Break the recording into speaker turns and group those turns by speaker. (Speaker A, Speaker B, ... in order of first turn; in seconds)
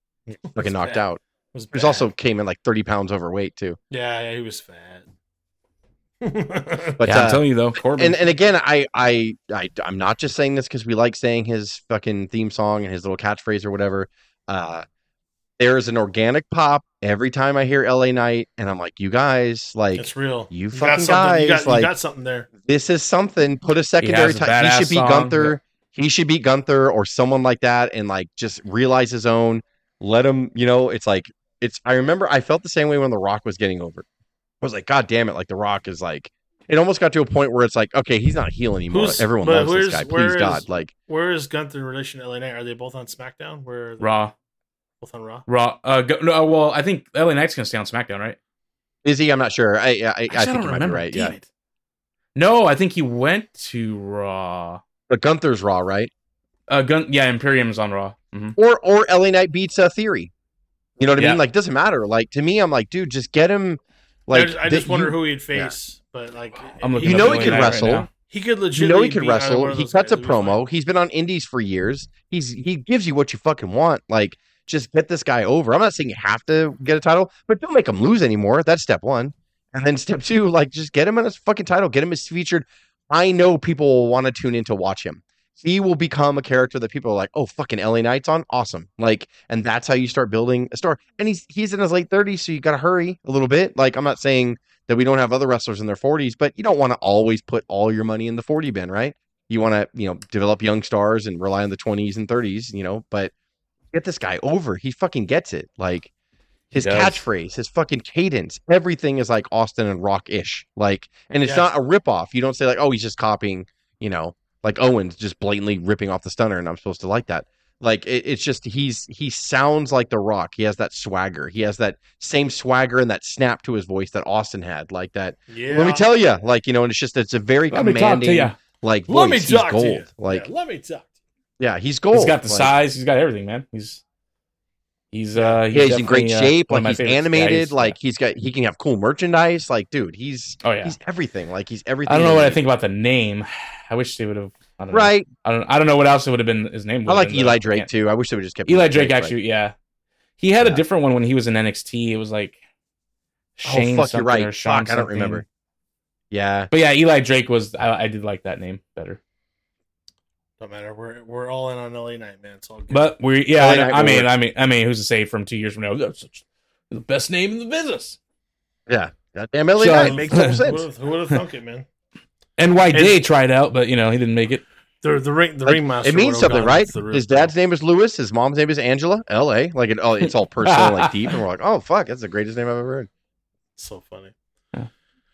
Speaker A: 0.3-2.1, 3.9-5.0, 6.2-7.0, 20.0-22.5, 38.9-44.1, 45.0-45.4, 64.3-70.6, 111.4-111.7, 125.5-126.0, 129.1-131.1, 135.3-135.6, 160.6-163.1, 169.9-171.9, 172.9-173.2, 175.0-177.5, 183.8-184.3
Speaker B: 0.5-1.2, 1.7-3.8, 7.0-14.8, 15.6-21.9, 22.6-34.0, 34.6-40.9, 49.0-51.4, 55.1-56.1, 58.6-60.3, 61.0-65.7, 67.0-68.1, 68.8-103.3, 103.9-106.1, 106.7-130.5, 131.6-132.7, 135.7-142.6, 144.9-145.3, 147.1-149.3, 153.6-155.4, 156.3-156.7, 163.5-164.3, 168.9-170.9, 175.7-183.1
Speaker C: 7.0-8.2, 24.0-25.6, 44.0-44.3, 45.5-48.4, 50.3-51.4, 52.3-54.8, 56.7-58.6, 61.2-61.4, 66.7-68.1, 106.7-107.2, 127.7-128.6, 132.1-134.0, 135.1-137.9, 140.6-140.9, 142.1-147.9, 148.7-149.7, 150.4-152.6, 153.6-155.4, 156.7-159.2, 162.9-168.2, 169.8-170.6, 172.6-174.6, 180.6-181.4